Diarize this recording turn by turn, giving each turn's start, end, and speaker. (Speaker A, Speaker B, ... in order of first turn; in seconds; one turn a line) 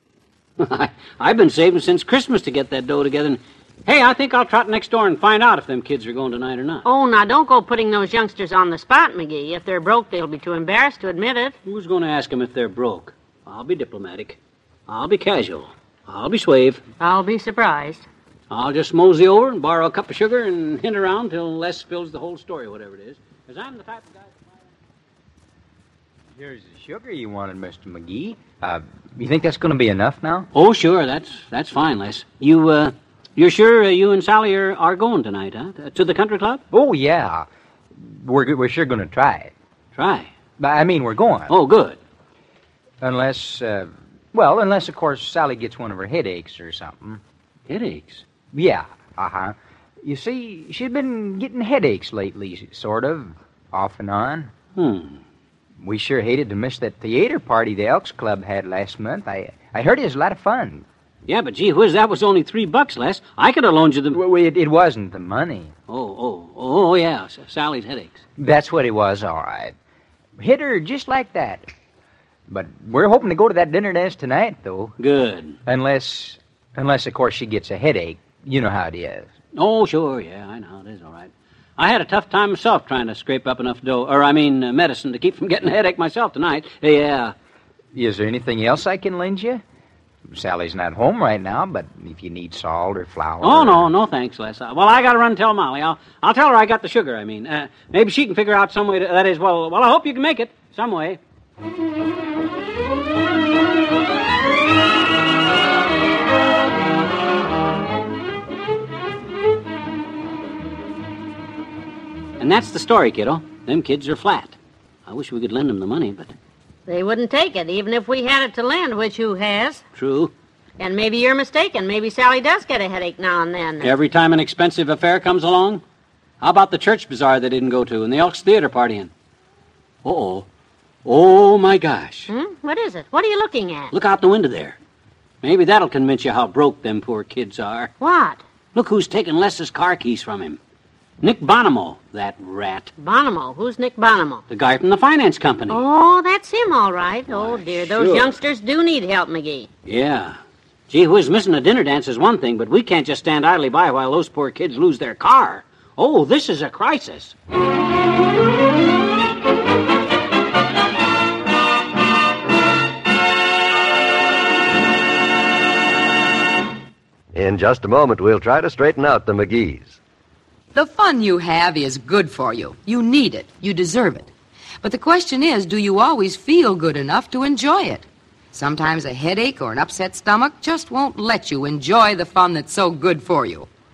Speaker A: 0.6-6.8
Speaker B: 6.8-11.6
Speaker A: 11.6-16.8
Speaker B: 17.0-18.1
Speaker A: 18.5-24.6
Speaker C: 26.4-30.5
Speaker A: 30.5-36.6
Speaker C: 36.7-37.5
Speaker C: 38.0-39.5
Speaker A: 39.9-40.3
Speaker C: 40.6-41.5
Speaker A: 41.5-42.0
Speaker C: 43.0-47.2
Speaker A: 47.7-48.2
Speaker C: 48.5-54.5
Speaker A: 54.8-55.2
Speaker C: 55.8-60.8
Speaker A: 61.3-64.2
Speaker C: 64.1-65.7
Speaker A: 65.9-68.2
Speaker C: 68.4-69.7
Speaker C: 70.4-71.7
Speaker C: 72.5-75.0
Speaker A: 75.0-75.5
Speaker C: 75.7-79.3
Speaker A: 79.5-87.3
Speaker C: 87.9-89.6
Speaker C: 90.3-93.9
Speaker A: 93.4-101.2
Speaker A: 112.4-116.3
Speaker B: 116.8-119.8
Speaker A: 119.9-120.3
Speaker B: 120.8-123.9
Speaker A: 123.8-125.8
Speaker A: 126.4-129.1
Speaker A: 130.0-130.5
Speaker A: 131.0-132.3
Speaker B: 132.3-133.9
Speaker A: 133.9-134.8
Speaker A: 135.4-137.9
Speaker B: 138.0-138.4
Speaker A: 138.7-140.6
Speaker A: 141.2-142.9
Speaker B: 143.0-144.4
Speaker A: 144.5-145.8
Speaker B: 145.7-149.7
Speaker A: 147.3-148.3
Speaker A: 149.8-150.4
Speaker A: 150.9-157.3
Speaker D: 167.3-170.0
Speaker E: 170.7-174.3
Speaker E: 174.8-183.7